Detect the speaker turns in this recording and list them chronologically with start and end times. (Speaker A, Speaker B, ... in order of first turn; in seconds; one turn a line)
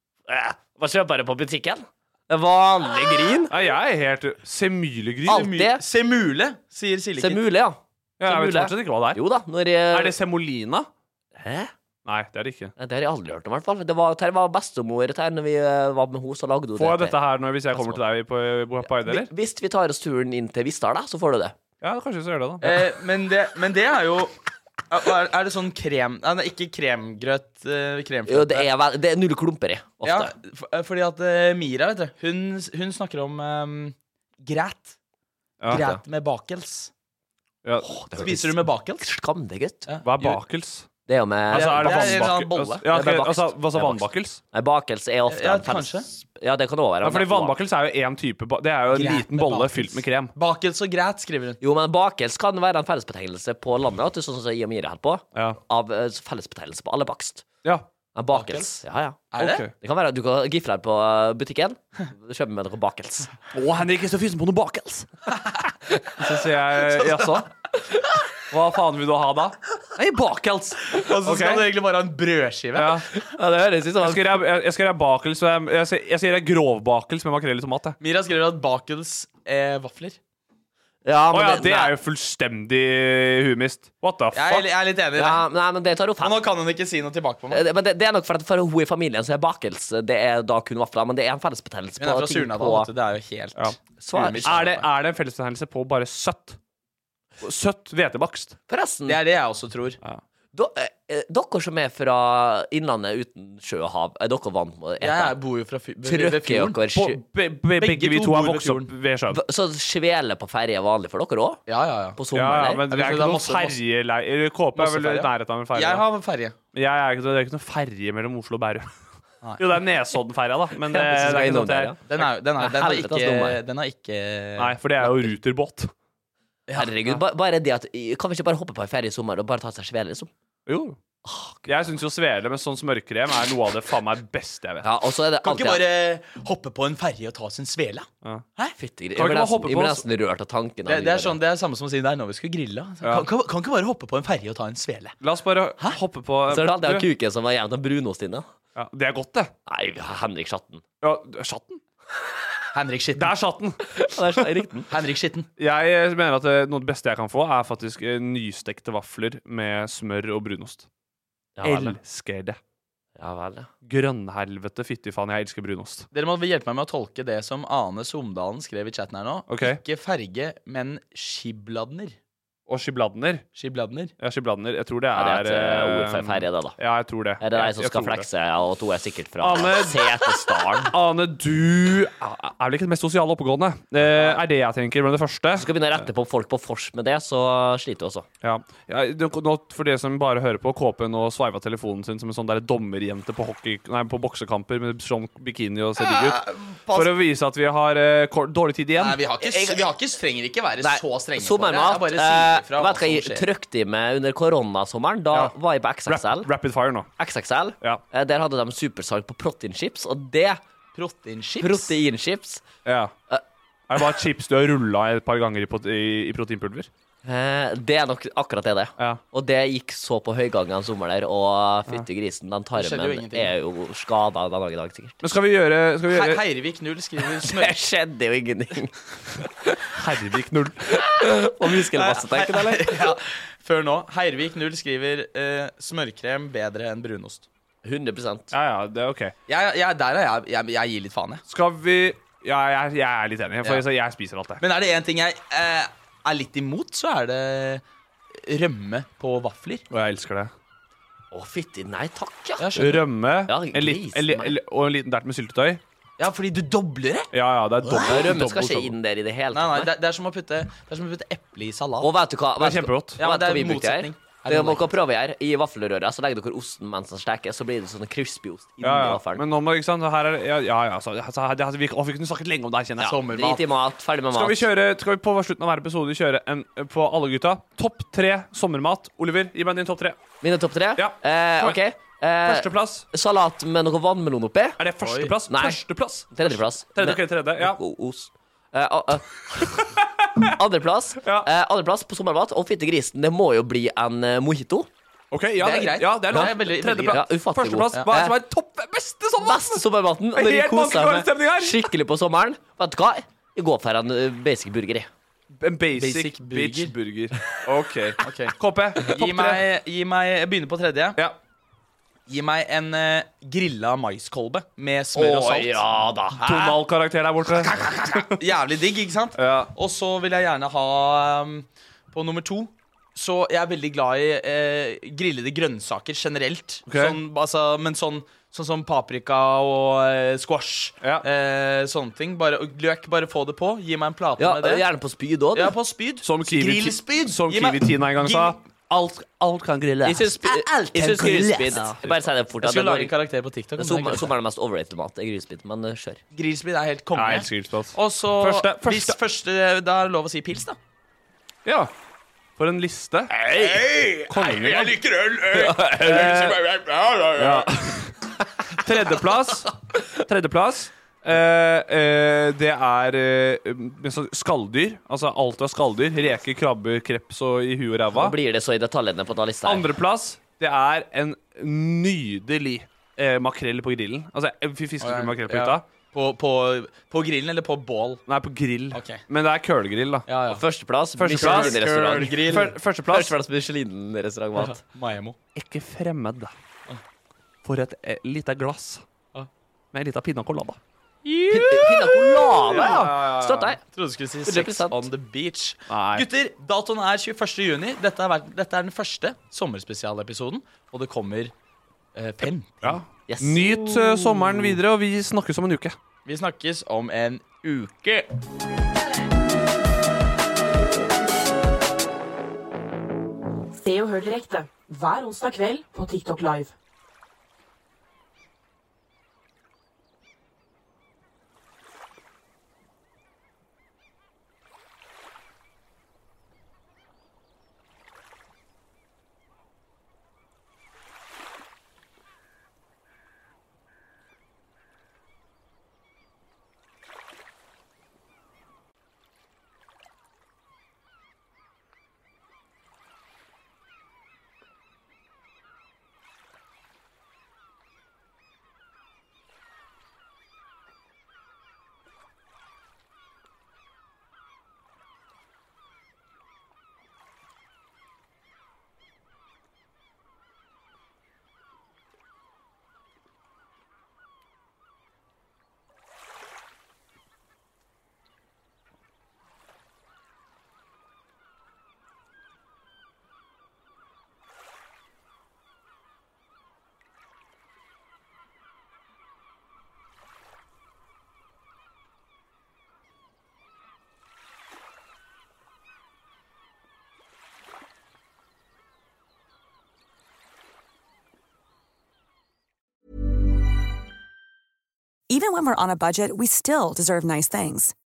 Speaker A: 0.3-3.5
Speaker B: 3.5-5.5
Speaker A: 5.2-5.8
Speaker C: 5.2-7.4
Speaker A: 7.2-10.1
Speaker B: 8.2-9.2
Speaker B: 9.9-10.9
Speaker A: 11.3-11.7
Speaker B: 12.0-12.7
Speaker A: 12.8-17.2
Speaker B: 16.8-19.3
Speaker A: 17.7-18.0
Speaker A: 18.8-21.6
Speaker B: 21.8-22.8
Speaker C: 22.6-24.4
Speaker C: 24.9-28.7
Speaker A: 28.3-30.3
Speaker C: 30.0-34.9
Speaker B: 35.6-35.9
Speaker C: 35.7-36.9
Speaker A: 35.7-36.0
Speaker B: 37.6-37.9
Speaker A: 37.8-39.9
Speaker C: 38.1-39.1
Speaker C: 39.9-40.4
Speaker B: 40.0-40.9
Speaker A: 41.1-42.3
Speaker B: 41.5-44.4
Speaker C: 41.5-43.2
Speaker A: 42.9-47.6
Speaker C: 45.3-46.1
Speaker B: 47.0-50.3
Speaker C: 48.9-51.6
Speaker A: 51.6-57.4
Speaker A: 58.1-63.3
Speaker C: 58.3-59.6
Speaker B: 59.4-59.7
Speaker B: 63.5-65.1
Speaker B: 66.2-67.5
Speaker C: 66.8-67.3
Speaker B: 68.5-71.7
Speaker C: 70.9-73.0
Speaker B: 72.7-73.0
Speaker A: 73.1-74.4
Speaker B: 74.0-78.0
Speaker C: 78.0-80.2
Speaker A: 81.0-81.9
Speaker B: 81.3-84.7
Speaker C: 84.3-85.5
Speaker A: 85.2-86.4
Speaker C: 86.2-87.6
Speaker A: 87.5-92.9
Speaker C: 92.0-94.8
Speaker A: 94.0-94.7
Speaker B: 94.4-96.6
Speaker B: 97.4-98.5
Speaker A: 98.7-99.2
Speaker C: 99.0-100.0
Speaker A: 100.5-105.3
Speaker C: 105.0-106.8
Speaker A: 106.0-107.2
Speaker B: 106.9-109.4
Speaker C: 107.8-108.9
Speaker A: 109.3-111.6
Speaker C: 111.7-112.2
Speaker A: 112.2-112.8
Speaker B: 112.3-116.0
Speaker C: 112.9-113.8
Speaker C: 114.8-116.5
Speaker B: 116.7-118.9
Speaker B: 119.6-121.9
Speaker A: 120.9-123.6
Speaker C: 122.1-124.7
Speaker B: 124.6-125.9
Speaker C: 126.7-127.2
Speaker A: 126.8-130.3
Speaker B: 130.7-131.0
Speaker A: 131.2-131.7
Speaker B: 131.7-134.8
Speaker A: 134.8-135.8
Speaker C: 135.4-138.7
Speaker A: 138.8-141.4
Speaker B: 139.2-140.0
Speaker C: 140.8-145.2
Speaker B: 145.2-147.1
Speaker A: 146.5-148.5
Speaker B: 148.8-149.5
Speaker A: 149.7-150.8
Speaker B: 151.0-151.8
Speaker C: 152.7-153.3
Speaker B: 153.2-154.4
Speaker A: 154.0-154.9
Speaker C: 154.9-155.5
Speaker B: 155.6-160.9
Speaker A: 161.6-162.0
Speaker B: 161.6-162.6
Speaker A: 163.2-163.7
Speaker B: 163.8-166.1
Speaker C: 166.1-172.2
Speaker B: 169.5-169.8
Speaker B: 172.7-173.4
Speaker C: 173.6-174.1
Speaker B: 174.2-178.2
Speaker A: 175.1-176.8
Speaker A: 177.4-180.9
Speaker B: 179.4-186.1
Speaker A: 185.5-188.2
Speaker B: 188.4-199.2
Speaker C: 196.0-197.1
Speaker C: 199.0-203.5
Speaker A: 199.4-199.9
Speaker A: 200.8-206.5
Speaker B: 206.1-207.1
Speaker A: 207.2-210.6
Speaker C: 210.9-211.9
Speaker A: 211.6-212.6
Speaker B: 212.8-213.1
Speaker B: 213.9-216.9
Speaker A: 217.2-225.2
Speaker C: 222.7-223.5
Speaker B: 225.2-226.4
Speaker C: 226.1-227.8
Speaker A: 227.4-229.8
Speaker B: 229.9-231.0
Speaker A: 231.0-233.0
Speaker C: 231.9-237.4
Speaker A: 237.8-238.5
Speaker B: 238.5-239.3
Speaker C: 239.5-241.4
Speaker B: 241.5-244.6
Speaker C: 244.6-247.8
Speaker C: 248.4-249.8
Speaker B: 249.9-250.5
Speaker A: 251.3-252.9
Speaker C: 252.6-253.0
Speaker B: 252.8-255.8
Speaker A: 253.5-254.5
Speaker C: 256.2-257.3
Speaker B: 257.3-258.9
Speaker C: 257.8-258.2
Speaker A: 258.0-259.9
Speaker C: 259.5-262.1
Speaker A: 262.0-269.4
Speaker B: 262.6-263.2
Speaker C: 263.2-264.9
Speaker B: 268.8-273.2
Speaker C: 273.0-273.6
Speaker A: 273.3-274.7
Speaker B: 274.3-280.2
Speaker A: 280.4-284.8
Speaker B: 281.0-281.8
Speaker B: 282.4-283.1
Speaker B: 284.8-287.8
Speaker C: 285.0-285.3
Speaker A: 285.5-289.9
Speaker B: 289.6-290.5
Speaker A: 290.6-294.9
Speaker B: 291.2-291.5
Speaker B: 295.3-301.8
Speaker C: 295.6-297.2
Speaker A: 296.3-298.0
Speaker C: 297.9-298.3
Speaker A: 299.4-305.1
Speaker B: 305.6-309.6
Speaker C: 305.9-306.9
Speaker C: 308.2-311.2
Speaker C: 312.3-315.8
Speaker A: 315.1-316.4
Speaker C: 316.4-316.8
Speaker B: 316.4-318.2
Speaker C: 317.6-334.8
Speaker B: 319.4-319.7
Speaker B: 326.9-327.2
Speaker A: 334.4-335.8
Speaker C: 335.5-338.6
Speaker B: 336.2-340.3
Speaker A: 340.0-343.1
Speaker C: 340.4-341.9
Speaker C: 342.6-344.3
Speaker A: 343.8-346.2
Speaker C: 346.3-350.8
Speaker B: 347.1-349.1
Speaker B: 351.6-351.9
Speaker B: 352.6-353.8
Speaker C: 353.4-357.7
Speaker B: 354.3-355.0
Speaker B: 355.5-356.6
Speaker B: 357.4-368.3
Speaker A: 368.1-369.9
Speaker B: 369.6-375.8
Speaker C: 375.0-378.2
Speaker B: 378.3-380.3
Speaker C: 378.9-379.2
Speaker C: 380.3-380.6
Speaker A: 380.5-382.5
Speaker B: 381.2-383.3
Speaker C: 381.3-382.8
Speaker A: 383.1-384.8
Speaker C: 384.6-385.4
Speaker B: 385.6-386.5
Speaker B: 387.6-389.0
Speaker B: 389.9-391.9
Speaker A: 391.5-393.8
Speaker C: 392.6-393.1
Speaker B: 392.6-393.7
Speaker C: 393.9-401.5
Speaker A: 394.4-395.1
Speaker B: 395.9-396.2
Speaker C: 402.1-403.0
Speaker B: 402.8-405.9
Speaker A: 403.3-404.4
Speaker C: 406.2-408.3
Speaker D: 413.7-416.7
Speaker E: 495.3-497.9